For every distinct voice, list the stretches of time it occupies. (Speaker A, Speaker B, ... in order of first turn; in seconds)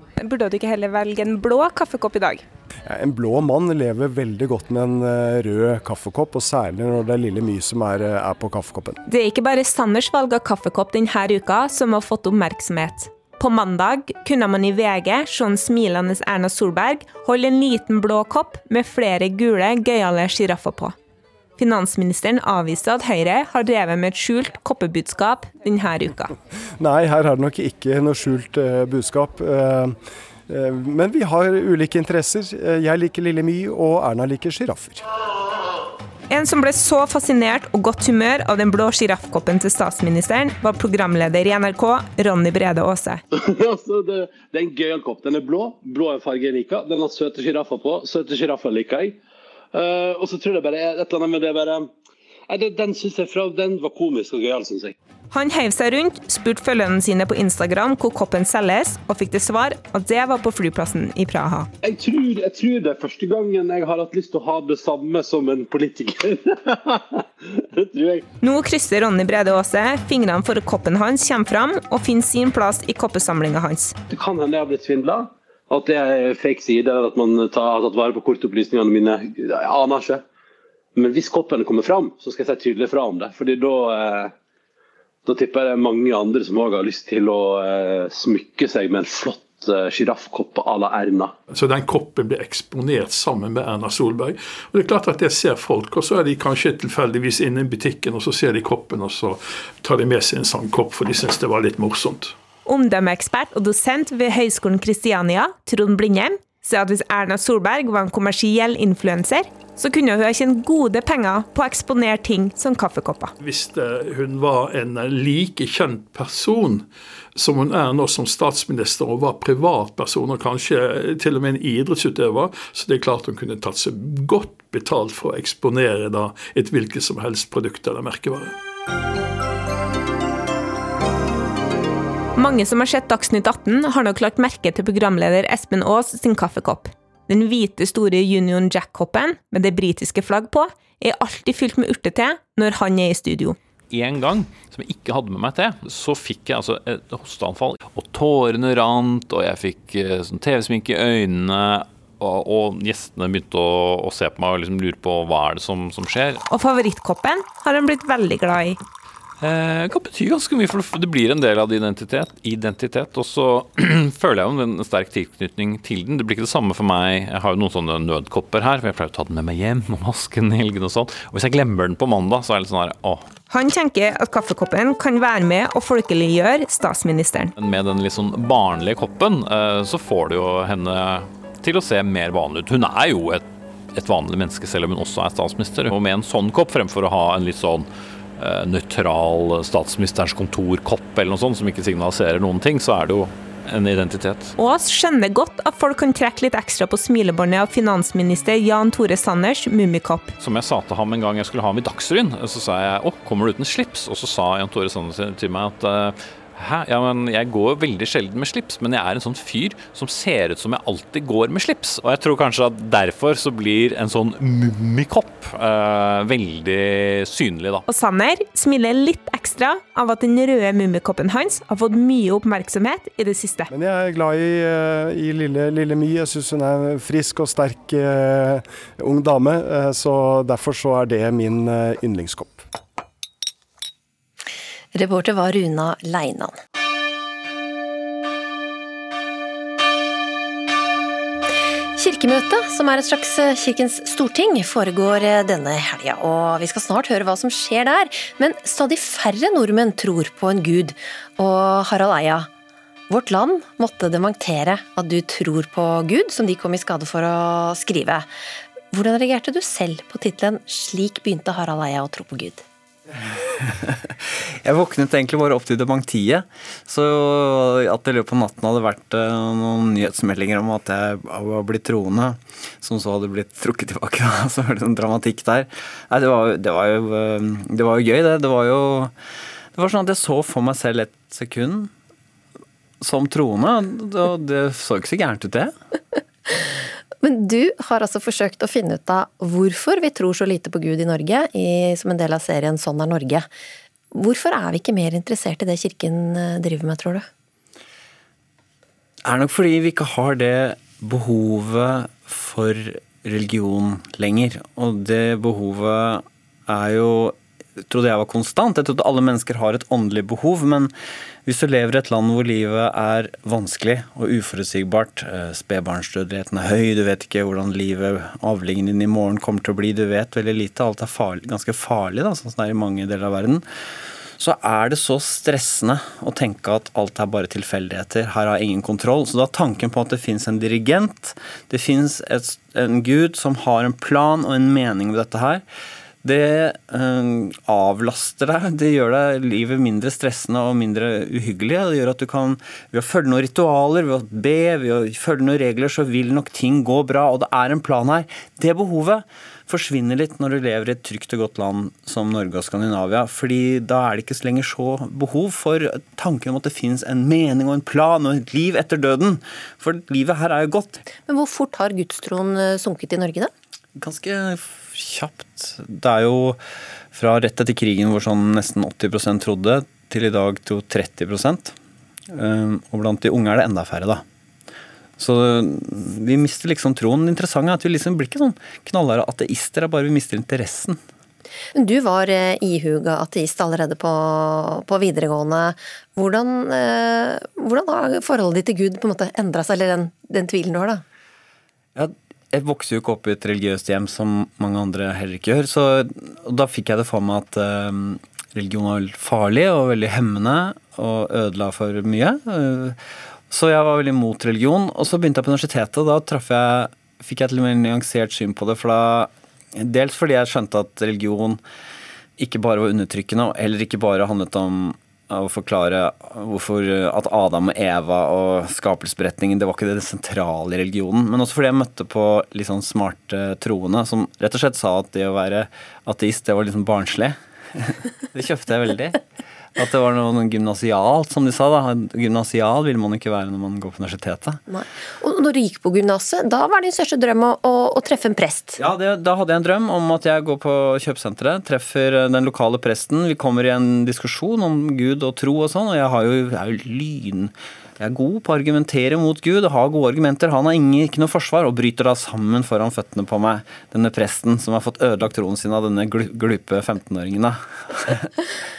Speaker A: 0.2-2.5, 9.1-20.9, 21.6-26.3, 36.3-43.2, 55.3-61.7, 68.4-74.0, 102.7-113.3, 132.4-143.6, 156.5-158.8, 173.5-177.5, 194.6-200.3, 217.9-223.7
Speaker B: 2.9-9.0, 26.8-30.0, 30.5-35.0, 223.7-232.7
Speaker C: 43.7-49.2, 49.8-51.9, 52.5-54.9, 61.8-66.2, 67.8-68.2, 74.1-80.2, 81.0-84.3, 85.3-91.3
Speaker D: 91.5-102.3, 113.4-128.5
Speaker E: 143.9-156.4, 159.4-173.4, 177.6-194.5, 200.4-217.8
Speaker F: 234.9-236.6, 242.0-252.5, 253.1-258.3, 258.9-262.6, 287.2-293.5, 294.1-297.3, 361.2-363.5, 381.8-391.0, 434.7-438.8
Speaker G: 264.6-279.1, 279.8-281.9, 283.0-285.7, 299.2-307.4, 307.9-310.9, 311.5-323.6, 324.4-335.6, 336.2-361.0, 364.0-366.6, 367.1-371.7, 372.3-374.2, 375.2-381.0, 391.9-403.0, 403.5-411.6, 412.4-429.2, 429.8-434.6, 438.8-457.6